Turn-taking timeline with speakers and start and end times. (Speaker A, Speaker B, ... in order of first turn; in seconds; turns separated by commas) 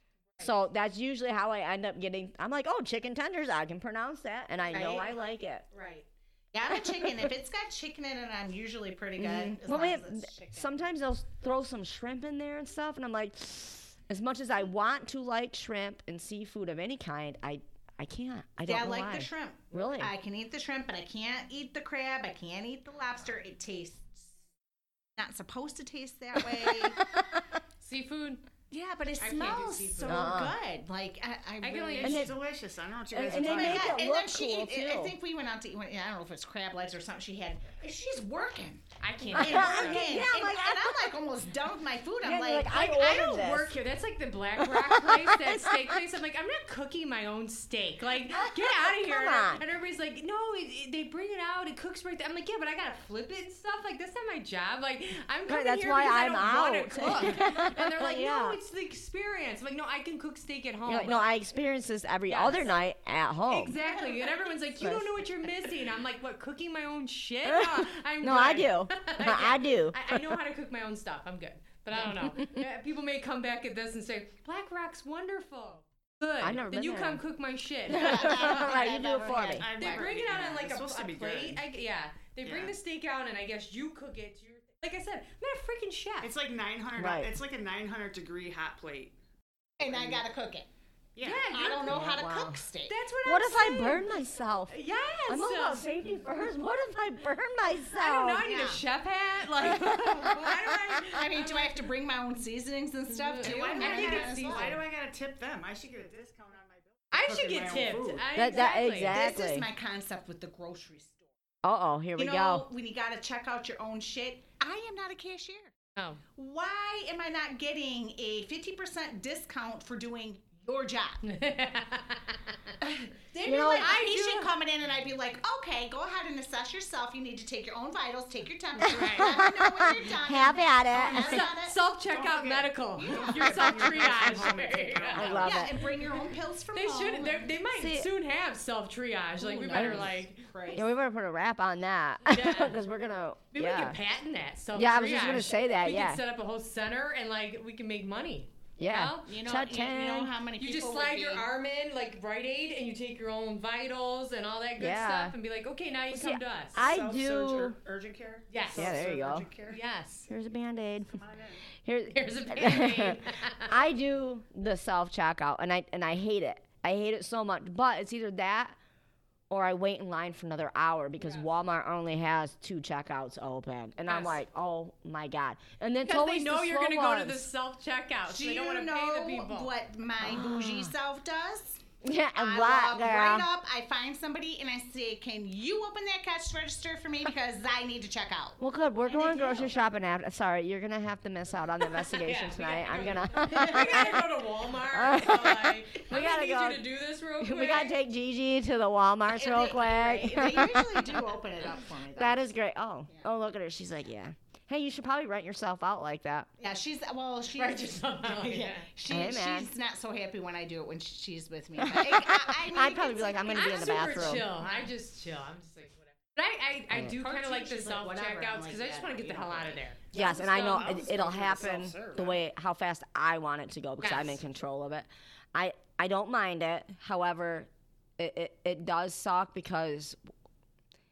Speaker A: 0.4-5.7, Speaker B: 4.7-5.2, Speaker B: 5.7-10.9, Speaker A: 9.2-20.1, Speaker B: 18.6-24.3, Speaker B: 25.2-27.0, Speaker A: 26.9-27.4, Speaker C: 27.8-28.4, Speaker B: 28.7-32.3, Speaker C: 29.2-30.4, Speaker A: 30.1-30.6, Speaker C: 31.6-32.3, Speaker D: 32.0-34.0, Speaker A: 32.0-32.4, Speaker A: 33.1-35.1, Speaker B: 33.3-38.8, Speaker C: 39.0-40.2, Speaker A: 39.3-41.1, Speaker B: 39.3-43.0, Speaker A: 42.2-43.8, Speaker C: 42.7-61.2, Speaker A: 44.6-46.0, Speaker A: 48.3-49.6, Speaker A: 55.5-58.6, Speaker A: 60.9-63.8, Speaker C: 62.3-62.7, Speaker C: 63.5-78.8, Speaker B: 63.8-64.5, Speaker A: 64.8-65.1, Speaker A: 67.5-70.3, Speaker A: 72.0-72.6, Speaker A: 76.4-77.2, Speaker A: 77.9-79.7, Speaker B: 77.9-80.1, Speaker D: 79.5-81.7, Speaker C: 79.8-86.3, Speaker D: 82.4-82.8, Speaker D: 86.2-89.2, Speaker A: 87.0-87.3, Speaker B: 89.8-90.7, Speaker D: 89.8-90.2, Speaker D: 91.2-91.5, Speaker C: 91.2-92.1, Speaker B: 91.5-93.0, Speaker A: 91.9-92.6, Speaker C: 92.9-94.1, Speaker A: 93.2-94.7, Speaker C: 94.7-95.9, Speaker A: 95.3-98.5, Speaker C: 97.9-101.8, Speaker B: 98.4-98.8, Speaker A: 99.8-100.5, Speaker B: 100.0-100.4, Speaker B: 101.0-104.8, Speaker C: 103.1-104.8, Speaker D: 103.4-108.3, Speaker C: 107.1-109.2, Speaker A: 108.3-109.7, Speaker B: 109.1-111.3, Speaker A: 111.6-112.7, Speaker B: 112.2-115.7, Speaker C: 116.0-116.2, Speaker B: 116.3-121.2, Speaker C: 121.2-124.5, Speaker B: 123.3-131.8, Speaker A: 123.5-124.0, Speaker C: 128.8-129.4, Speaker A: 128.9-131.5, Speaker C: 131.1-135.5, Speaker D: 132.1-135.6, Speaker B: 133.0-134.0, Speaker A: 135.1-135.8, Speaker B: 135.3-137.5, Speaker C: 136.7-140.5, Speaker A: 137.7-138.1, Speaker A: 139.5-140.2, Speaker B: 139.6-140.9, Speaker A: 140.7-144.0, Speaker C: 142.3-142.8, Speaker C: 143.5-149.3, Speaker A: 144.7-146.2, Speaker A: 148.8-150.3, Speaker B: 149.3-151.5, Speaker C: 150.6-156.9, Speaker A: 154.8-155.4, Speaker A: 156.1-157.8, Speaker D: 156.8-159.8, Speaker C: 158.5-159.0, Speaker A: 158.7-159.5, Speaker C: 159.7-160.3, Speaker A: 160.3-161.2, Speaker D: 161.1-161.7, Speaker A: 161.8-168.8, Speaker C: 162.1-163.8, Speaker A: 169.5-177.5, Speaker C: 174.1-174.4, Speaker C: 176.0-179.7, Speaker B: 178.3-181.8, Speaker A: 180.2-180.9, Speaker A: 182.0-183.5, Speaker B: 182.3-189.7, Speaker A: 188.6-194.3, Speaker C: 192.0-197.9, Speaker A: 194.9-196.8, Speaker A: 197.4-201.2, Speaker B: 199.3-202.5, Speaker A: 202.2-206.5, Speaker B: 206.6-214.7, Speaker C: 207.6-208.9, Speaker A: 209.1-209.7, Speaker A: 211.8-214.5, Speaker C: 213.5-220.9, Speaker B: 217.1-219.8, Speaker D: 220.1-222.4, Speaker A: 220.1-230.2, Speaker C: 224.0-224.4